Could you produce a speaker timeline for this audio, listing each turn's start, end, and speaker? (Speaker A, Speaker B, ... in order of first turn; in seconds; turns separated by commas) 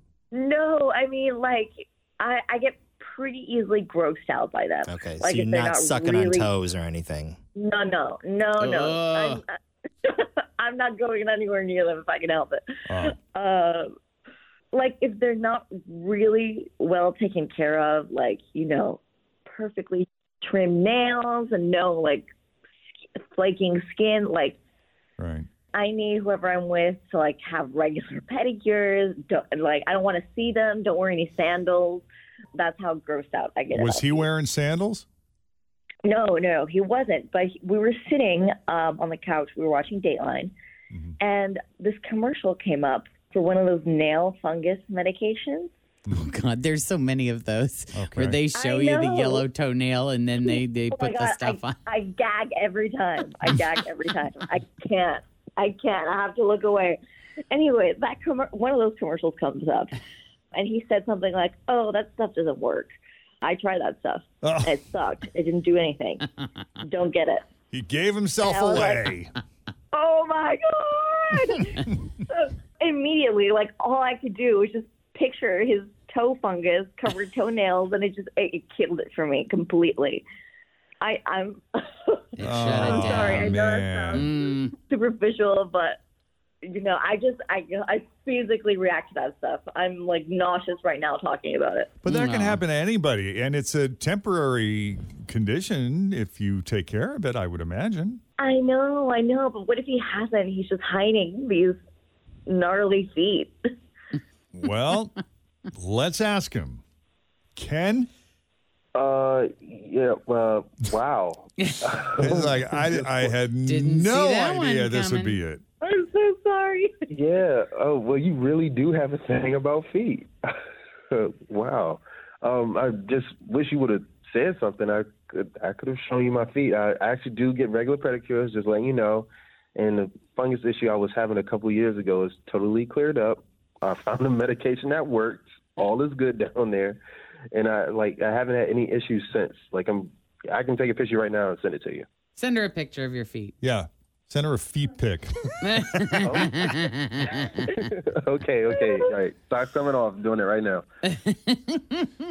Speaker A: 0.3-6.5, Speaker B: 4.8-7.4, Speaker A: 7.5-13.9, Speaker C: 8.6-9.4, Speaker D: 12.9-13.2, Speaker A: 14.7-22.3, Speaker A: 23.2-24.6, Speaker D: 25.2-25.5, Speaker A: 25.7-32.0, Speaker A: 32.5-34.2, Speaker D: 33.7-35.0, Speaker A: 36.0-40.5, Speaker A: 41.2-45.7, Speaker C: 46.1-51.8, Speaker D: 47.9-48.5, Speaker A: 48.5-49.4, Speaker A: 50.9-57.0, Speaker A: 57.5-59.9, Speaker A: 60.5-66.2, Speaker D: 64.4-65.2, Speaker A: 66.8-67.4, Speaker D: 67.7-69.3, Speaker A: 68.4-69.0, Speaker A: 69.9-80.2, Speaker A: 81.0-86.0, Speaker C: 82.4-83.5, Speaker D: 82.4-84.3, Speaker C: 84.1-84.7, Speaker A: 86.6-91.9, Speaker D: 92.0-98.2, Speaker C: 92.0-92.6, Speaker A: 98.4-101.8, Speaker A: 102.5-103.5, Speaker D: 104.5-105.1, Speaker D: 105.7-106.8, Speaker D: 107.5-108.1, Speaker E: 108.9-113.3, Speaker C: 111.6-112.0, Speaker D: 112.2-115.6, Speaker C: 113.6-115.4, Speaker A: 115.8-116.9, Speaker E: 117.1-120.3, Speaker E: 121.1-137.0, Speaker E: 137.5-142.1, Speaker C: 142.3-143.5, Speaker D: 143.6-146.2, Speaker C: 145.6-147.7, Speaker E: 146.2-146.5, Speaker E: 147.8-150.8, Speaker A: 148.7-149.0, Speaker C: 151.2-152.1